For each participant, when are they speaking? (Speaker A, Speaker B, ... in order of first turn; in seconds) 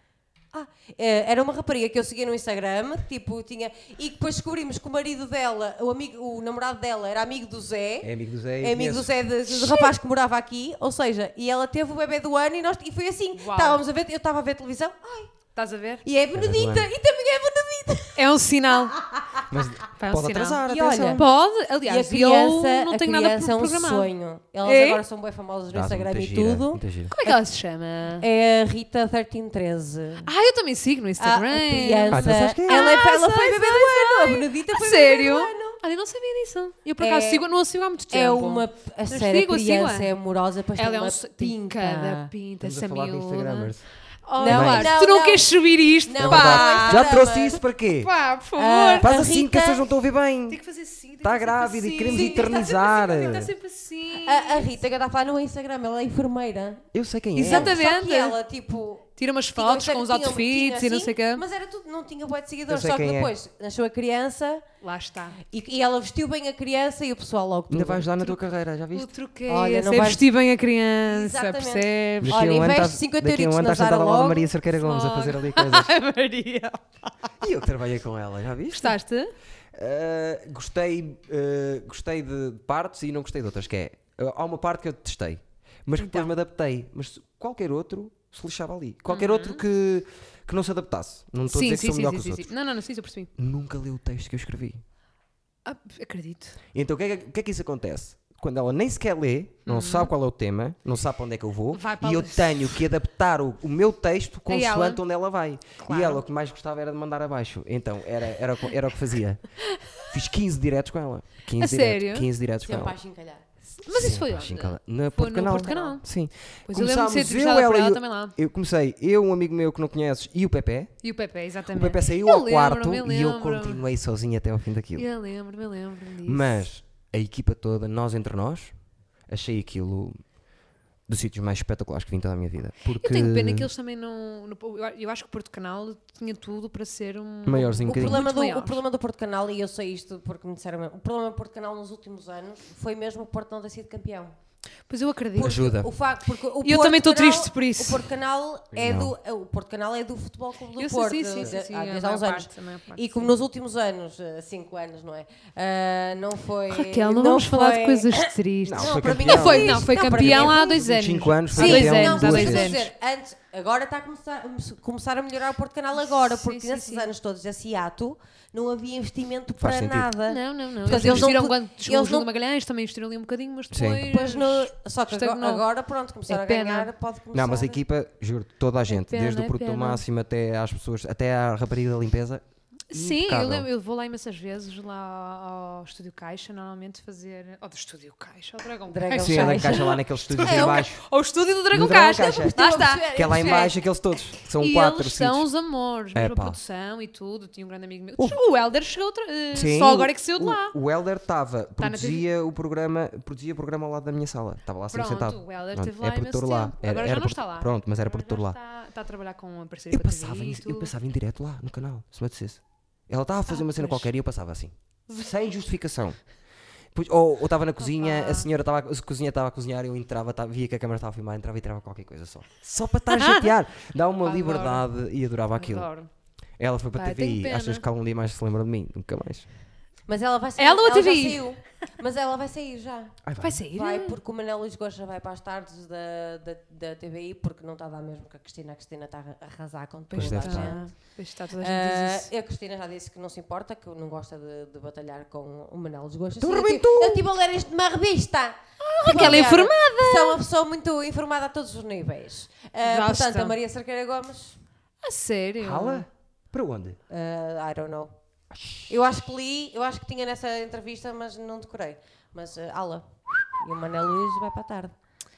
Speaker A: 0.5-15.3, 16.0-19.6, 20.7-21.3, 21.8-27.4, 28.2-30.3, 31.2-35.8, 37.0-37.5, 38.1-42.3, 44.4-45.5, 46.0-47.6, 48.5-49.9, 52.1-52.8, 54.2-56.9, 57.4-64.7, 65.4-68.1, 69.5-70.3, 71.1-74.5, 112.6-113.4, 115.6-115.9, 137.9-144.3, 145.3-160.9, 161.5-172.3, 174.1-177.8, 188.9-190.9, 192.2-193.8, 230.1-254.6, 257.1-258.1, 258.9-264.9
Speaker B: 8.0-9.1, 16.3-16.9, 19.5-21.2, 25.7-27.1, 32.1-33.0, 42.6-43.9, 44.5-44.9, 46.2-48.1, 49.0-50.6, 51.2-53.5, 56.9-57.8, 62.7-63.3, 67.7-69.1, 72.2-75.9, 77.4-79.0, 79.7-92.5, 93.4-94.8, 96.7-113.0, 113.9-120.9, 121.7-125.1, 126.2-128.7, 129.3-130.2, 131.1-133.7, 137.4-138.2, 145.4-145.9, 148.7-149.1, 158.6-162.8, 169.6-170.1, 170.8-171.3, 173.7-174.0, 177.3-183.7, 189.2-191.0, 191.7-192.6, 193.1-195.5, 196.1-196.6, 199.5-208.6, 209.9-216.3, 216.9-225.9, 226.6-229.5, 233.2-233.6, 240.2-240.8, 246.4-247.3, 255.6-257.0, 258.5-258.9
Speaker C: 9.5-9.9, 13.4-13.8, 15.6-16.0, 18.2-19.0, 20.0-24.1, 24.6-25.0, 27.1-28.3, 30.2-40.1, 40.8-43.7, 44.2-47.2, 48.0-49.1, 50.5-54.7, 57.4-58.4, 59.2-61.4, 64.8-65.4, 68.9-72.5, 74.7-77.1, 78.7-79.3, 86.0-86.3, 89.1-89.6, 91.5-93.3, 95.7-96.6, 99.7-100.1, 101.7-102.8, 104.5-105.0, 105.8-106.2, 111.6-112.3, 113.8-116.0, 116.7-118.4, 121.0-123.8, 125.0-126.7, 133.0-138.8, 144.9-145.7, 146.6-148.1, 150.8-153.3, 156.7-162.9, 166.1-167.1, 170.3-175.7, 176.3-176.9, 178.9-180.0, 182.9-193.8, 194.4-200.8, 201.8-202.3, 204.9-210.9, 213.5-214.1, 217.8-218.5, 223.1-223.5, 224.2-224.9, 225.6-226.1, 227.0-227.8, 230.6-231.6, 233.4-234.2, 240.1-242.3, 248.8-250.4, 252.8-253.6, 255.0-256.1